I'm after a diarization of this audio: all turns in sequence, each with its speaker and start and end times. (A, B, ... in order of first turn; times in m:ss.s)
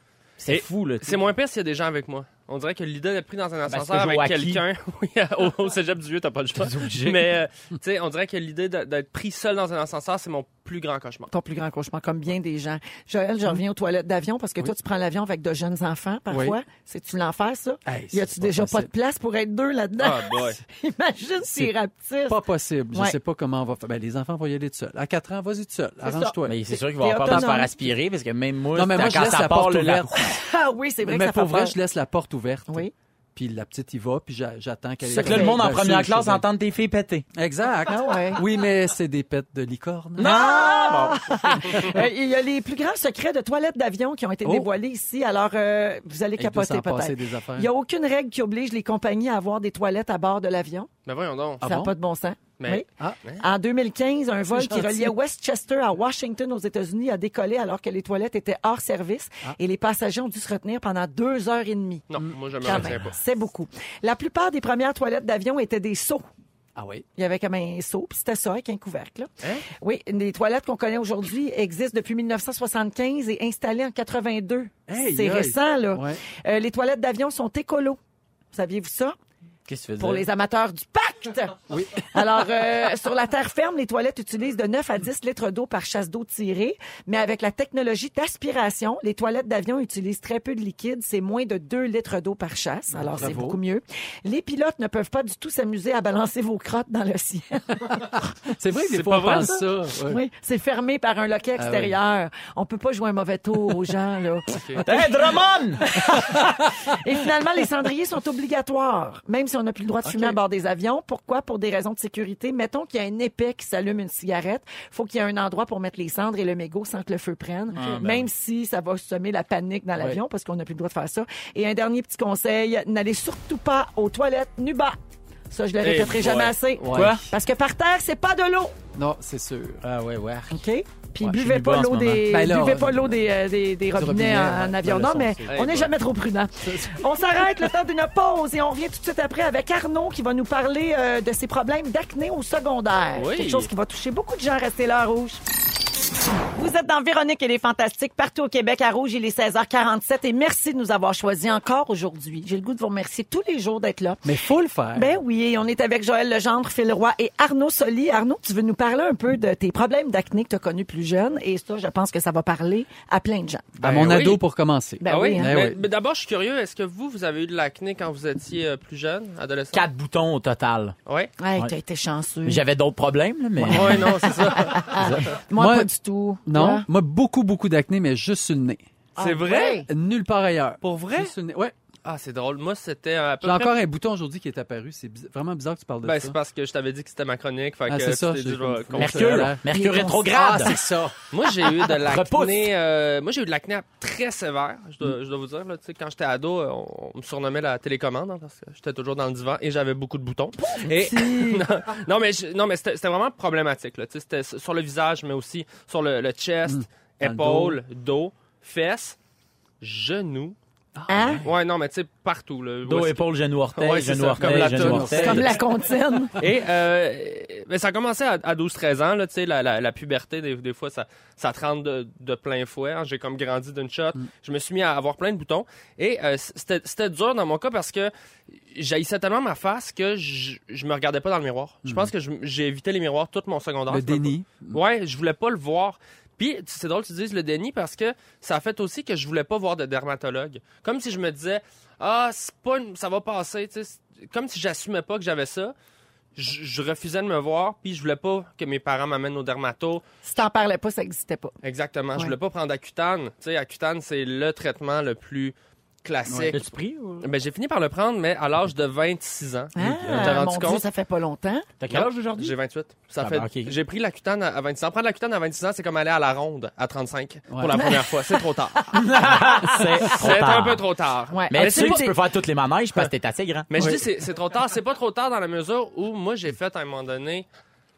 0:00.4-0:01.3 A
0:00.5-0:11.3 B
0:03.7-0:04.6 A
0:06.6-0:07.1 A
0:11.3-0:22.4 C
0:16.3-0:16.6 D
0:17.8-0:18.9 D
0:20.0-0:20.6 B
0:22.3-0:26.6 D
0:22.9-0:23.2 C
0:26.0-0:27.7 C
0:26.4-0:30.1 A
0:27.2-0:27.5 D
0:28.7-0:30.4 D
0:30.1-0:31.8 C
0:31.0-0:36.4 D
0:35.0-0:37.2 A
0:35.1-0:35.6 C
0:37.4-0:40.3 D
0:37.9-0:38.4 C
0:40.2-0:41.4 A
0:40.2-0:50.9 C
0:41.7-0:42.0 D
0:44.4-0:44.7 D
0:46.4-0:47.7 D
0:51.0-0:51.6 B
0:51.6-0:52.9 C
0:51.6-0:51.9 D
0:52.6-0:53.4 B
0:53.4-1:02.0 C
0:54.5-0:55.1 D
1:02.1-1:03.2 B
1:02.2-1:03.1 D
1:02.6-1:06.2 C
1:06.8-1:07.0 D
1:07.2-1:18.0 C
1:14.9-1:16.2 D
1:18.5-1:19.2 C
1:19.7-1:20.2 A
1:20.0-1:38.3 C
1:21.7-1:22.1 D
1:32.9-1:33.6 D
1:38.5-1:40.2 D
1:38.8-1:39.6 B
1:40.0-2:05.0 C
1:41.6-1:42.0 D
1:44.5-1:44.8 B
1:44.8-1:46.1 A
1:50.0-1:50.4 D
1:57.7-1:58.3 A
2:05.5-2:08.7 C
2:05.8-2:06.5 B
2:06.8-2:07.2 D
2:06.9-2:07.3 A
2:08.9-2:09.8 D
2:09.8-2:10.6 A
2:10.5-2:25.4 C
2:11.2-2:12.2 A
2:12.3-2:13.2 D
2:13.9-2:15.8 D
2:15.5-2:15.9 B
2:16.6-2:17.0 D
2:23.2-2:23.7 B
2:26.5-2:34.2 C
2:34.2-2:35.1 D
2:34.9-2:43.8 C
2:43.8-2:45.8 D
2:43.8-2:44.4 B
2:45.0-2:45.5 C
2:45.0-2:49.8 B
2:49.7-2:51.0 A
2:51.4-2:52.6 C
2:52.4-2:54.3 A
2:53.6-2:55.2 B
2:54.5-2:56.9 C
2:55.0-2:55.9 D
2:56.4-2:58.8 D
2:59.2-2:59.9 C
2:59.2-2:59.8 B
2:59.9-3:01.7 D
3:00.8-3:01.3 B
3:02.0-3:03.8 B
3:03.4-3:06.4 D
3:06.0-3:09.5 B
3:07.9-3:11.1 D
3:08.9-3:11.1 A
3:09.7-3:10.3 C
3:11.3-3:29.2 B
3:11.8-3:12.7 A
3:20.6-3:21.6 C
3:26.7-3:27.8 D
3:29.8-3:30.6 B
3:31.0-3:31.4 D
3:31.1-3:31.4 C
3:31.4-3:35.5 B
3:32.8-3:35.5 A
3:34.4-3:35.6 D
3:35.1-3:36.4 C
3:36.4-3:48.1 B
3:48.7-4:05.7 B
3:51.8-3:52.1 D
3:53.9-3:54.8 D
4:06.4-4:10.0 B
4:10.2-4:11.5 C
4:11.6-4:16.6 B
4:16.3-4:16.6 D
4:16.5-4:17.3 A
4:17.2-4:20.8 B
4:19.8-4:21.7 C
4:19.8-4:20.4 D
4:21.8-4:22.5 A
4:21.9-4:28.9 B
4:23.2-4:23.7 A
4:27.5-4:27.9 D
4:27.7-4:28.1 C
4:28.9-4:30.8 A
4:30.0-4:32.1 B
4:31.3-4:32.1 C
4:31.5-4:33.7 A
4:33.7-4:37.4 B
4:33.8-4:34.0 D